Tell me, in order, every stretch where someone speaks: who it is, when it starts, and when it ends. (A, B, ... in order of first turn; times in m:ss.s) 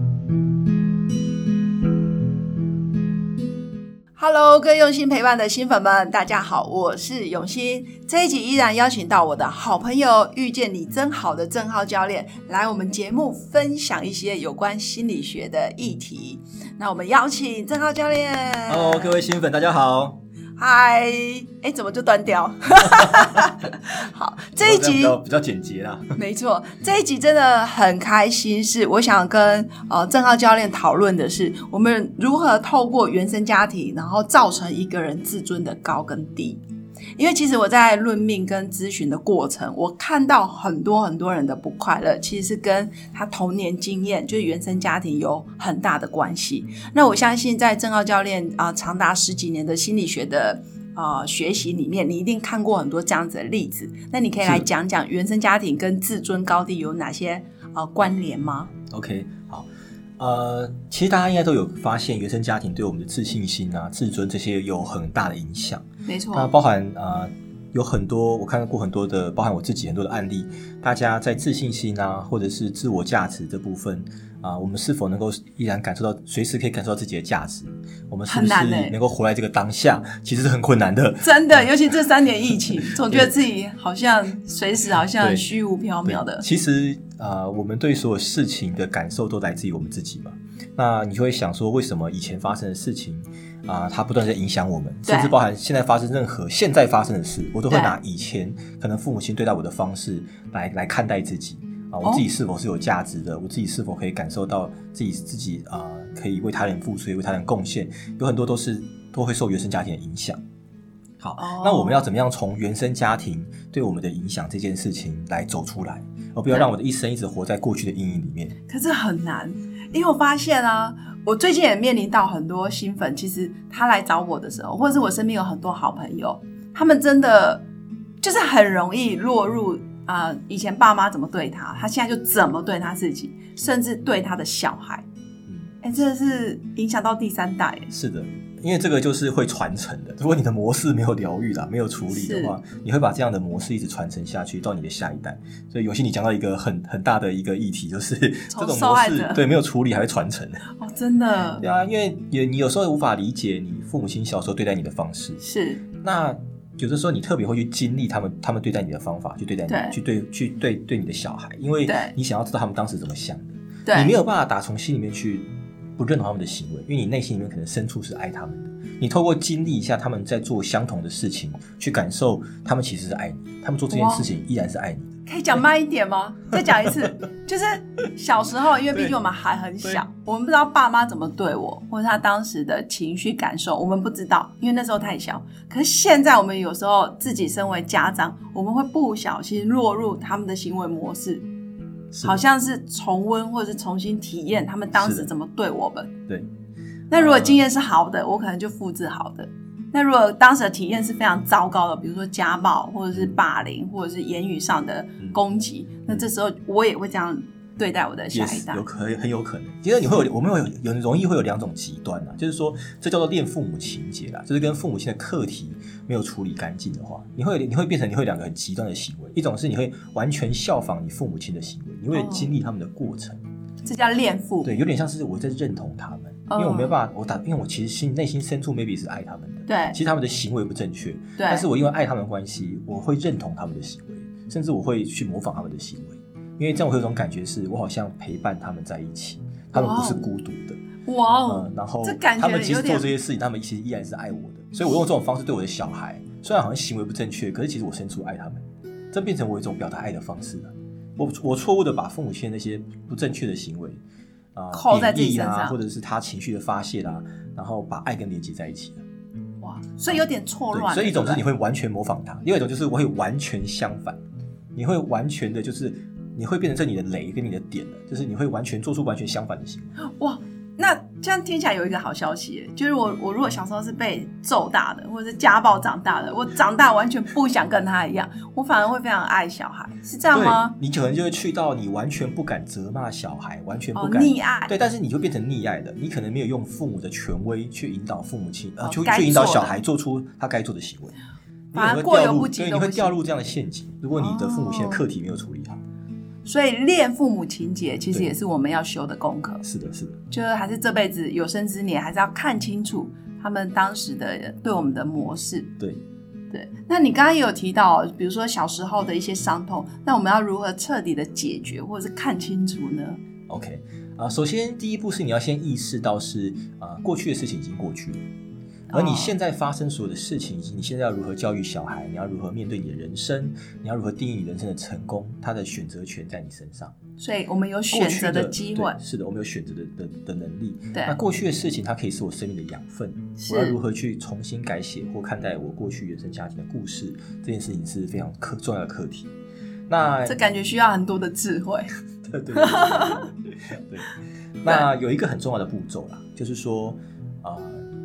0:04.2-0:19.2 A
0:18.7-0:20.2 B
0:20.6-0:25.2 A
0:24.6-0:26.2 B
0:26.2-0:36.6 A
0:37.2-0:58.7 A
0:54.4-0:54.7 B
0:58.9-0:59.7 B
1:00.2-1:21.8 B
1:06.1-1:06.5 A
1:18.3-1:19.0 A
1:21.2-1:26.5 A
1:22.9-1:23.4 B
1:25.2-1:25.5 B
1:26.0-1:50.4 B
1:35.1-1:35.4 A
1:37.7-1:38.0 A
1:51.2-1:58.6 B
1:51.4-1:52.1 A
1:58.7-2:07.6 A
2:08.2-2:15.0 A
2:15.5-2:15.7 B
2:15.8-2:17.9 A
2:17.9-2:30.7 B
2:22.1-2:22.6 A
2:28.5-2:29.5 A
2:30.8-2:31.6 A
2:31.6-2:35.4 B
2:35.4-2:35.8 A
2:36.0-2:45.5 B
2:39.7-2:40.0 A
2:41.9-2:42.2 A
2:43.9-2:44.2 A
2:46.0-2:55.2 B
2:53.9-2:54.3 A
2:55.3-3:11.4 A
3:12.1-3:12.4 B
3:12.2-3:16.1 A
3:14.9-3:15.3 B
3:17.1-3:28.8 A
3:17.1-3:17.6 B
3:28.3-3:43.4 B
3:42.1-3:42.5 A
3:43.8-3:44.7 A
3:44.6-4:00.8 B
3:46.5-3:46.9 A
3:49.7-3:50.0 A
3:51.4-3:51.7 A
3:59.7-4:00.3 A
4:01.1-4:03.1 A
4:01.5-4:14.0 B
4:14.6-4:19.0 B
4:14.7-4:15.8 A
4:19.6-4:21.4 A
4:20.1-4:24.2 B
4:24.8-4:29.9 B
4:30.1-4:40.8 A
4:40.3-4:51.2 B
4:44.0-4:44.7 A
4:48.8-4:49.8 A
4:51.7-4:55.8 B
4:51.7-4:53.2 A
4:54.1-4:55.0 A
4:56.4-4:59.6 A
4:59.6-5:00.2 B
5:00.3-5:05.7 A
5:06.5-5:13.2 A
5:13.5-5:18.3 B
5:18.9-5:19.3 A
5:18.9-5:26.9 B
5:27.2-5:29.0 A
5:27.9-5:39.3 B
5:33.4-5:33.8 A
5:39.9-5:40.4 B
5:40.3-5:41.9 A
5:42.3-5:44.1 B
5:42.5-5:43.3 A
5:44.6-5:47.8 B